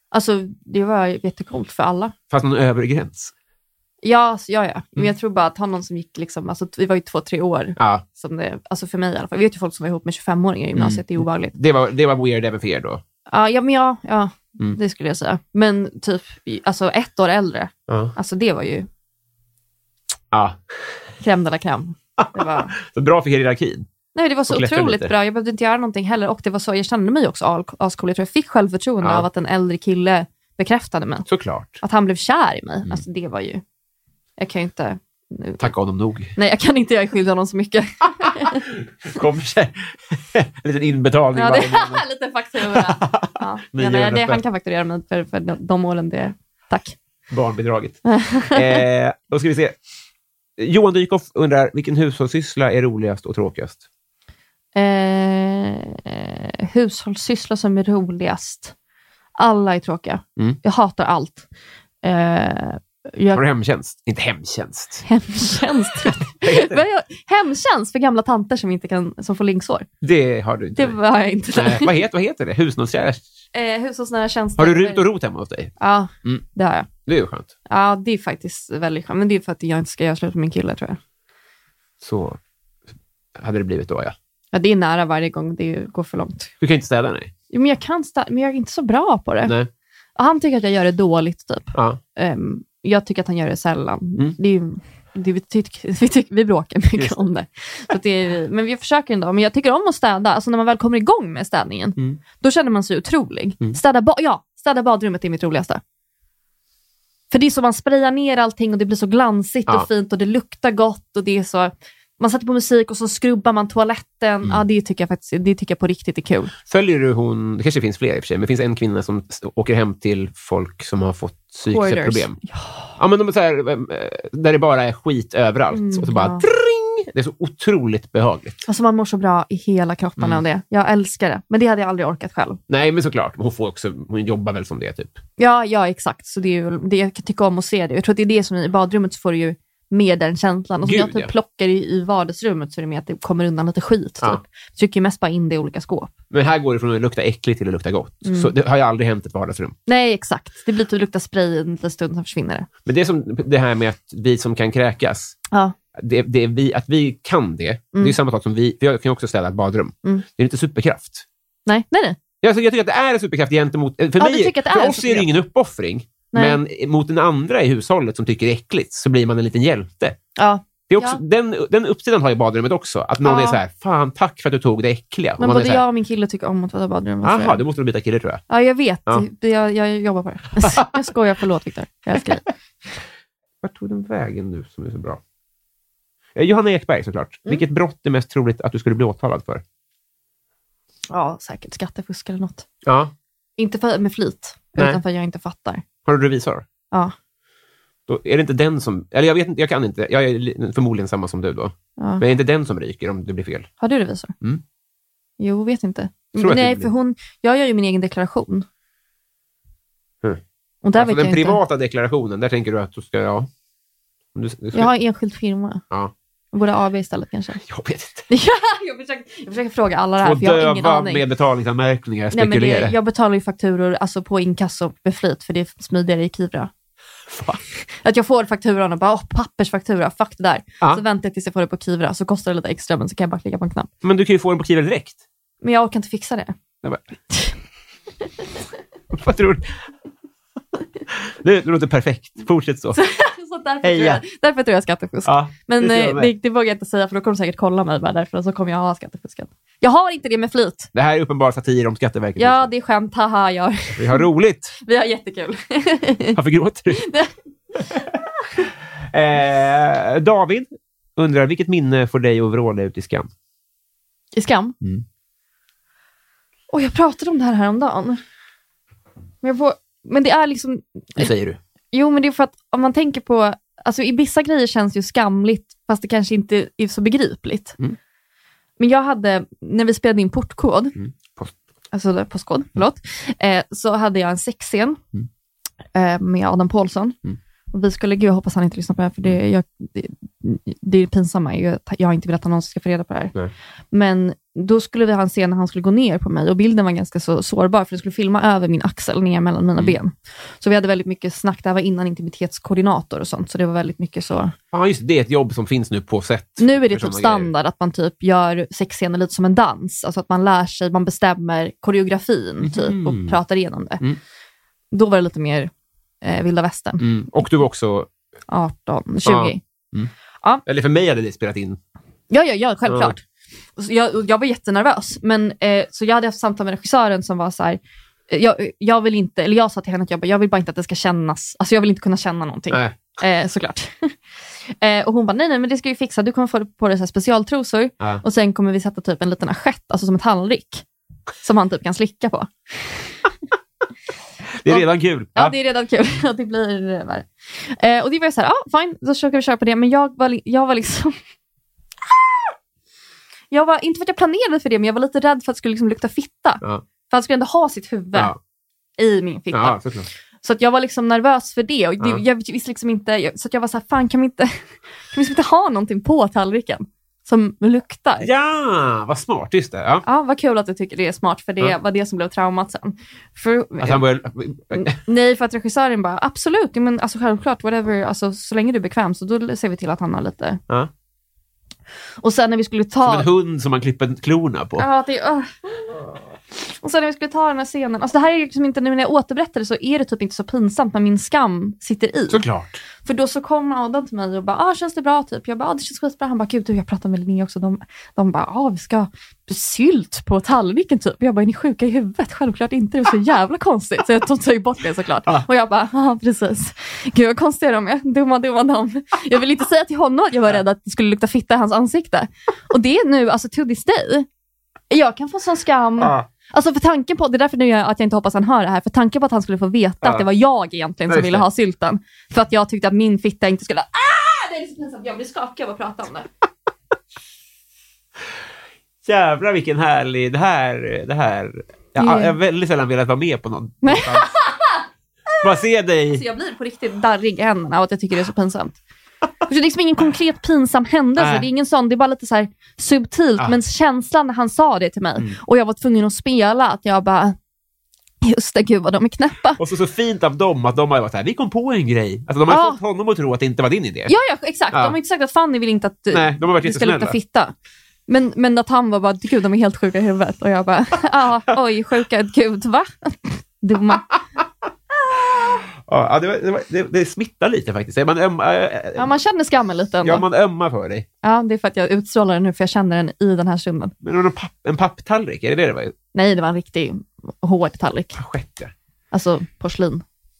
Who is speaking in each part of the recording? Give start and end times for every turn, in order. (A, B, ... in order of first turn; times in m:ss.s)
0:00.1-0:02.1 A
0:02.3-0:03.3 B
0:04.0-0:11.5 A
0:07.8-0:08.0 B
0:10.8-0:13.0 B
0:13.3-0:18.9 A
0:17.9-0:18.1 B
0:20.3-0:20.7 B
0:21.2-0:22.7 A
0:22.2-0:23.9 B
0:24.1-0:31.3 A
0:24.5-0:25.1 B
0:29.0-0:29.3 B
0:31.2-0:31.8 B
0:31.8-0:33.6 A
0:34.4-0:35.7 A
0:35.6-0:36.3 B
0:36.3-0:38.6 A
0:38.2-0:42.0 B
0:41.3-0:47.0 A
0:42.6-0:44.4 B
0:47.3-0:49.8 B
0:48.0-0:48.8 A
0:50.6-0:53.8 B
0:54.7-0:58.7 A
0:59.4-1:01.4 A
1:02.0-1:03.4 A
1:03.3-1:05.0 B
1:05.0-1:09.9 A
1:06.0-1:06.8 B
1:10.0-1:11.0 B
1:10.8-1:11.9 A
1:11.5-1:13.3 B
1:13.5-1:15.1 A
1:14.6-1:16.4 B
1:15.8-1:16.9 A
1:17.0-1:17.5 B
1:17.7-1:21.0 A
1:22.0-1:22.4 B
1:23.4-1:24.1 B
1:24.5-1:26.5 A
1:26.6-1:27.3 B
1:27.5-1:29.5 A
1:29.4-1:29.7 B
1:30.2-1:45.8 A
1:31.7-1:32.0 B
1:37.0-1:37.2 B
1:47.3-1:56.5 A
1:56.7-2:02.4 B
2:01.7-2:02.9 A
2:03.0-2:08.6 B
2:05.7-2:06.4 A
2:08.6-2:12.6 A
2:12.7-2:15.2 B
2:15.4-2:26.1 A
2:20.8-2:21.3 B
2:26.3-2:29.8 B
2:28.2-2:28.5 A
2:29.8-2:32.7 A
2:32.8-2:35.4 B
2:35.9-2:41.2 B
2:41.6-2:42.2 A
2:42.4-2:50.2 B
2:44.2-2:45.3 A
2:46.3-2:46.6 A
2:50.4-2:51.2 A
2:50.9-2:55.8 B
2:53.2-2:53.6 A
2:55.4-2:57.6 A
2:57.2-2:58.4 B
2:58.5-3:02.4 A
3:00.6-3:00.9 B
3:03.6-3:05.2 B
3:06.3-3:09.6 B
3:11.1-3:12.6 A
3:12.8-3:13.1 B
3:13.6-3:15.8 A
3:14.8-3:15.0 B
3:16.0-3:16.6 B
3:18.1-3:23.7 B
3:22.0-3:22.2 A
3:23.8-3:24.3 A
3:25.4-3:28.6 A
3:26.4-3:26.9 B
3:30.8-3:31.6 A
3:30.9-3:33.5 B
3:34.3-3:34.9 B
3:34.7-3:35.8 A
3:36.5-3:37.6 A
3:37.6-3:38.2 B
3:38.3-3:41.2 A
3:40.2-3:43.0 B
3:42.3-3:46.7 A
3:47.3-3:47.6 B
3:47.9-3:53.9 A
3:54.0-3:55.2 B
3:55.6-3:56.6 A
3:59.1-3:59.9 B
4:01.1-4:03.0 B
4:02.9-4:10.9 A
4:03.8-4:04.2 B
4:05.2-4:06.3 B
4:10.9-4:12.7 B
4:12.4-4:14.2 A
4:14.0-4:14.7 B
4:14.8-4:16.4 A
4:16.3-4:17.0 B
4:16.9-4:17.3 A
4:17.9-4:18.1 A
4:19.1-4:23.3 B
4:24.3-4:24.8 A
4:26.7-4:28.2 A
4:29.4-4:31.3 A
4:31.2-4:31.6 B
4:31.9-4:37.8 A
4:38.8-4:41.0 A
4:41.0-4:41.5 B
4:41.9-4:45.0 A
4:45.9-4:47.2 A
4:47.7-4:53.3 A
4:53.9-5:04.5 A
5:04.7-5:07.5 B
5:06.6-5:14.0 A
5:12.6-5:13.4 B
5:14.9-5:15.7 A
5:16.2-5:17.1 A
5:17.0-5:18.1 B
5:18.5-5:19.6 A
5:19.2-5:20.1 B
5:20.6-5:21.8 B
5:22.3-5:23.2 A
5:22.8-5:23.1 B
5:23.8-5:34.2 A
5:32.7-5:33.1 B
5:34.7-5:40.8 A
5:41.4-5:43.0 A
5:44.6-5:45.5 B
5:44.7-5:51.1 A
5:53.5-5:58.3 A
5:59.0-5:59.8 A
5:59.5-6:00.1 B
6:00.4-6:08.3 A
6:08.2-6:10.0 B
6:10.0-6:14.0 A
6:13.8-6:15.0 B
6:14.7-6:20.6 A
6:22.2-6:23.3 A
6:23.0-6:24.9 B
6:24.8-6:26.0 A
6:26.6-6:32.4 A
6:32.3-6:32.8 B
6:33.0-6:54.3 A
6:54.9-7:06.3 A
6:56.0-6:56.3 B
7:01.1-7:01.4 B
7:09.0-7:14.3 B
7:12.0-7:12.4 A
7:13.8-7:14.8 A
7:15.4-7:16.2 B
7:16.1-7:18.8 A
7:19.5-7:27.4 A
7:21.2-7:21.5 B
7:28.2-7:29.6 A
7:29.6-7:34.1 B
7:32.5-7:32.8 A
7:34.1-7:37.5 A
7:36.1-7:37.2 B
7:38.1-7:44.1 A
7:45.3-7:49.1 B
7:49.0-7:50.2 A
7:50.0-7:51.1 B
7:51.2-7:53.9 A
7:54.0-7:55.9 B
7:56.1-7:58.2 A
7:58.1-7:58.7 B
7:59.1-8:00.0 A